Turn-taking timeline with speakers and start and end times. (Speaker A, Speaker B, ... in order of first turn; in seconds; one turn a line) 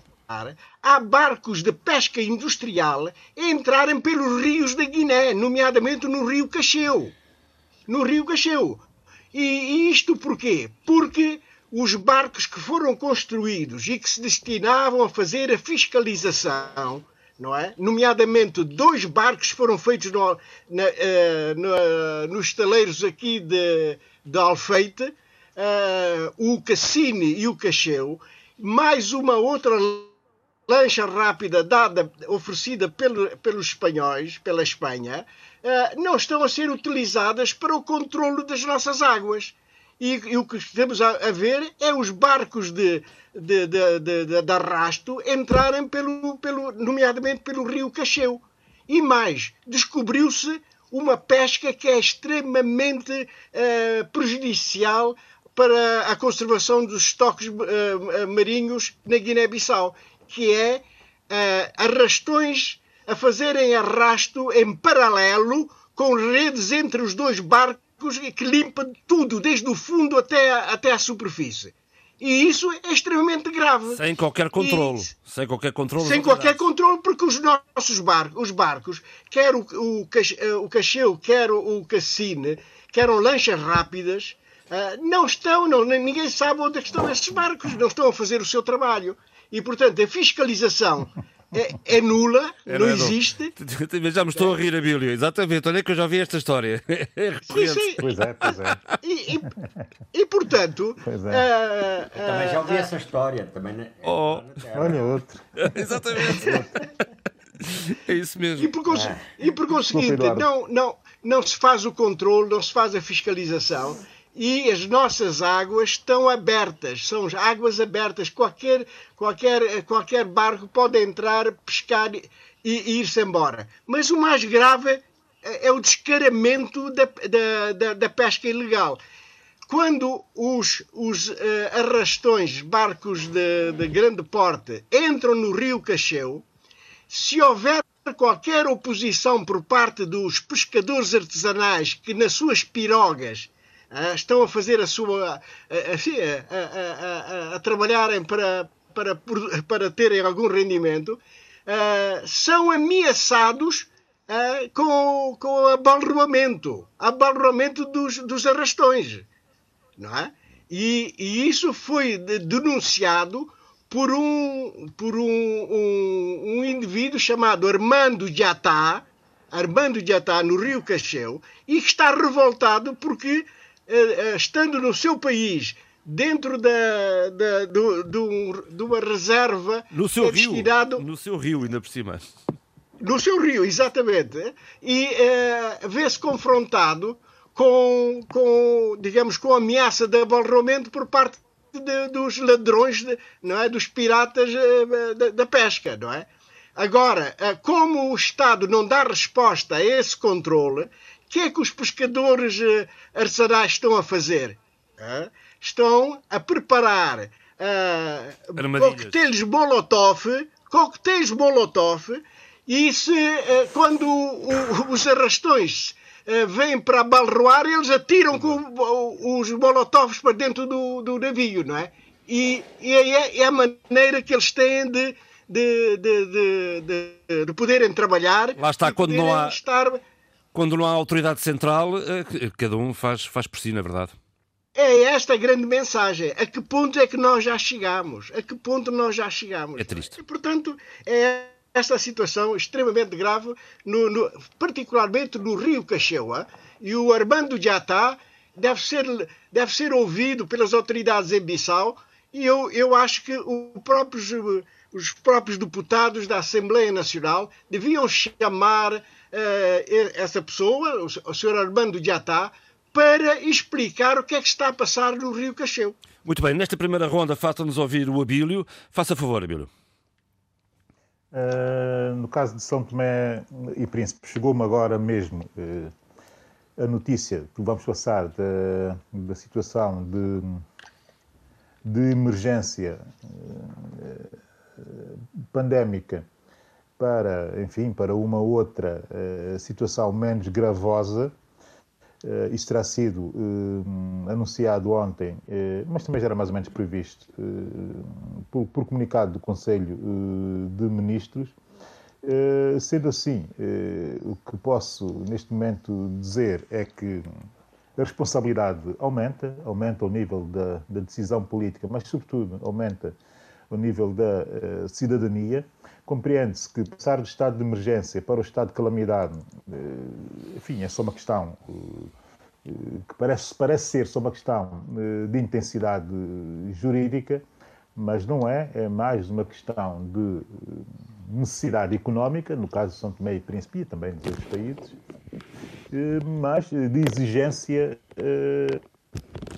Speaker A: 0.3-7.1
Speaker A: 7.9-30.2
Speaker A: 30.7-74.0
Speaker B: 73.9-76.7
Speaker A: 74.6-75.1
Speaker A: 76.0-93.5
Speaker B: 92.7-98.8
Speaker A: 94.3-94.7
Speaker A: 97.5-99.5
Speaker C: 98.0-98.8
Speaker A: 100.1-102.9
Speaker C: 101.0-101.5
Speaker D: 102.2-105.1
Speaker B: 104.0-104.5
Speaker C: 104.7-106.0
Speaker B: 105.6-106.8
Speaker A: 106.4-106.7
Speaker B: 107.6-108.7
Speaker A: 108.6-129.0
Speaker D: 108.9-109.3
Speaker C: 109.9-110.5
Speaker A: 129.7-136.4
Speaker A: 137.1-159.3
Speaker A: 160.0-181.1
Speaker B: 179.9-182.2
Speaker A: 183.0-230.0
Speaker B: 208.6-209.2
Speaker B: 218.3-218.6
Speaker B: 228.6-229.6
Speaker B: 230.6-234.1
Speaker A: 234.8-266.0
Speaker B: 239.8-240.2
Speaker B: 266.2-269.7
Speaker C: 271.3-275.9
Speaker C: 276.8-280.6
Speaker C: 281.9-286.3
Speaker C: 287.0-291.3
Speaker C: 292.2-301.6
Speaker C: 302.2-307.3
Speaker C: 308.0-313.2
Speaker C: 313.7-322.1
Speaker C: 322.7-327.4
Speaker C: 328.0-335.0
Speaker C: 335.9-338.8